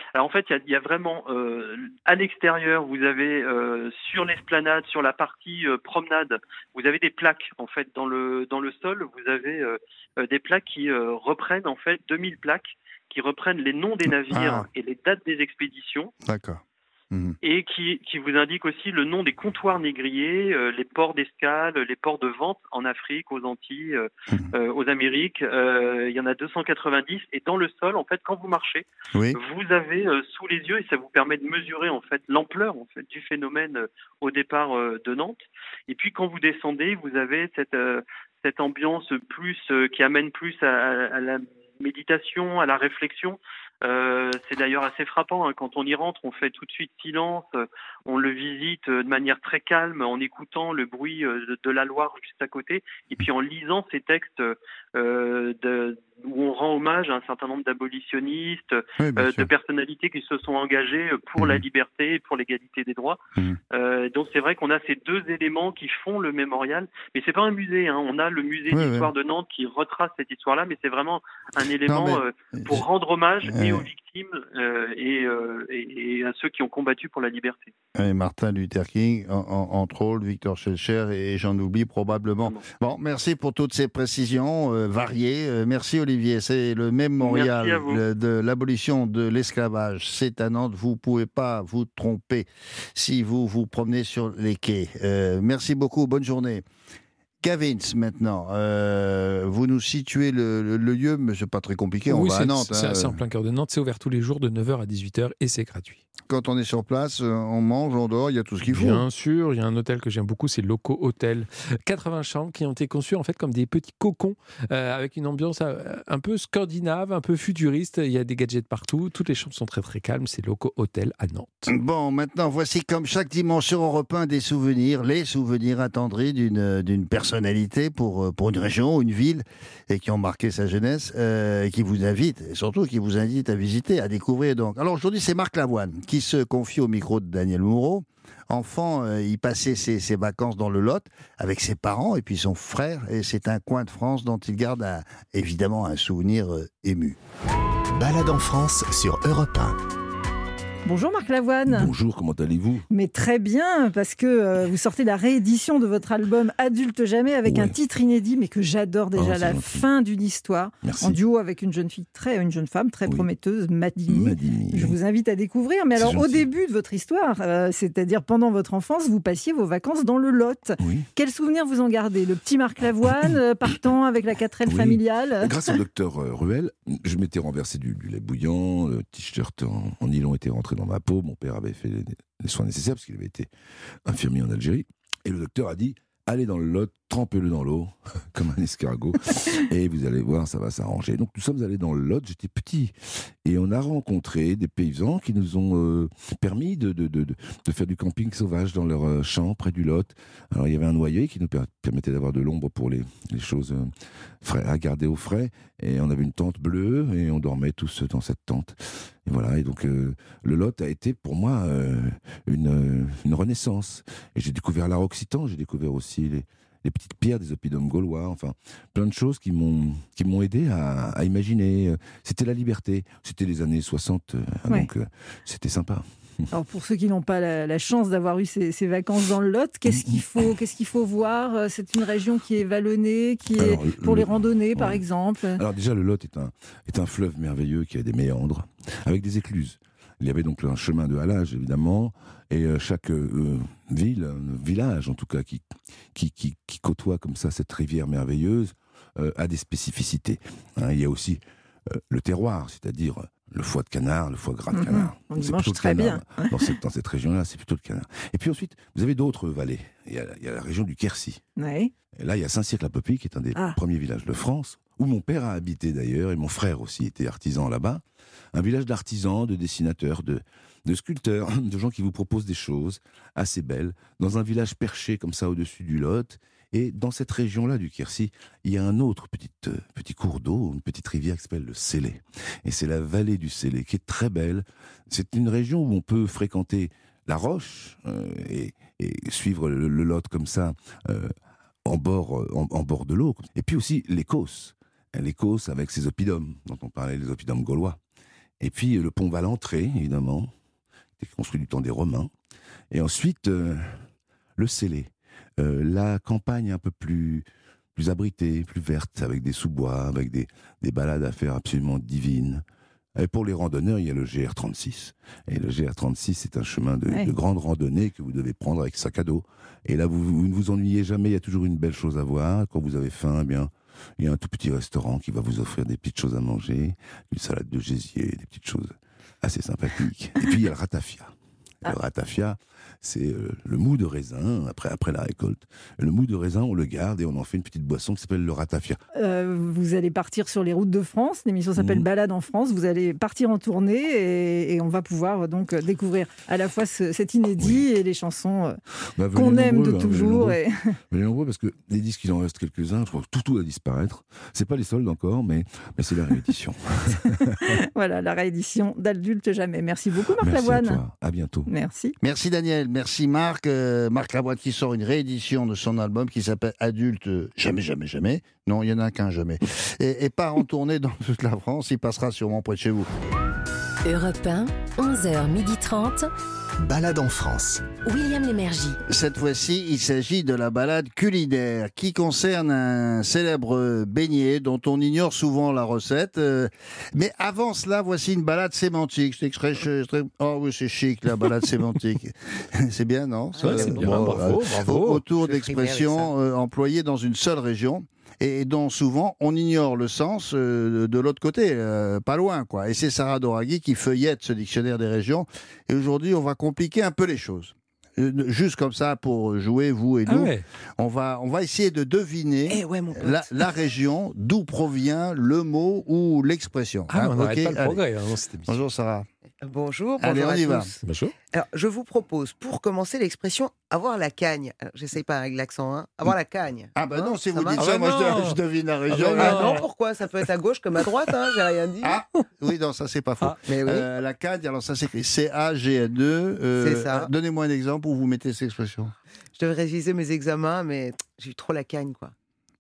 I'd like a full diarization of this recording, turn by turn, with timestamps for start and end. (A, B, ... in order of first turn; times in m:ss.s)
0:00.1-0:16.1 A
0:14.3-0:14.7 B
0:16.2-0:17.4 B
0:17.4-1:03.2 A
0:59.0-0:59.5 B
1:03.7-1:17.7 A
1:08.7-1:09.1 B
1:11.9-1:12.8 B
1:13.4-1:13.8 B
1:18.0-1:36.6 B
1:27.2-1:28.0 A
1:37.4-1:43.2 B
1:42.1-1:46.0 C
1:46.3-1:49.0 B
1:48.6-2:01.7 C
2:01.7-2:27.2 B
2:27.9-2:29.8 D
2:30.8-2:31.9 E
2:31.7-2:32.9 F
2:32.9-2:55.8 E
2:37.4-2:37.8 F
2:39.2-2:39.9 F
2:40.8-2:41.2 F
2:44.1-2:45.0 F
2:45.9-2:46.5 F
2:50.8-2:51.1 F
2:54.6-3:03.5 F
3:04.1-3:12.9 F
3:13.4-3:46.1 F
3:46.5-3:55.6 E
3:49.9-3:50.5 F
3:53.6-3:55.0 F
3:55.6-4:21.4 F
4:14.7-4:16.8 E
4:21.6-4:21.9 E
4:22.2-4:28.0 F
4:28.5-4:51.4 F
4:51.9-4:58.0 F
4:58.6-5:00.5 F
5:01.2-5:02.3 F
5:02.9-5:04.1 F
5:04.6-5:12.6 F
5:13.2-5:31.3 F
5:17.1-5:17.3 E
5:31.9-5:39.0 F
5:39.2-5:48.8 E
5:41.8-5:42.1 F
5:47.6-5:47.9 F
5:49.2-5:50.6 F
5:49.3-5:50.9 E
5:51.1-5:57.6 F
5:57.7-6:01.0 E
6:00.4-6:01.7 F
6:01.7-6:02.1 E
6:02.2-6:13.1 B
6:14.0-6:16.3 G
6:16.8-6:18.0 D
6:18.0-6:19.0 G
6:19.1-6:58.0 B
6:33.6-6:34.5 H
6:33.6-6:35.2 C
6:35.3-6:36.3 H
6:50.3-6:50.6 C
6:52.7-6:53.5 H
6:57.1-6:58.8 C
6:58.6-6:59.3 B
6:59.6-7:01.0 H
7:00.2-7:00.9 B
7:01.0-7:01.3 C
7:01.5-7:08.0 H
7:06.9-7:09.8 B
7:07.8-7:08.6 C
7:09.1-7:09.9 C
7:09.3-7:12.2 H
7:12.0-7:19.1 B
7:13.7-7:14.1 H
7:16.8-7:17.3 H
7:19.6-7:22.3 H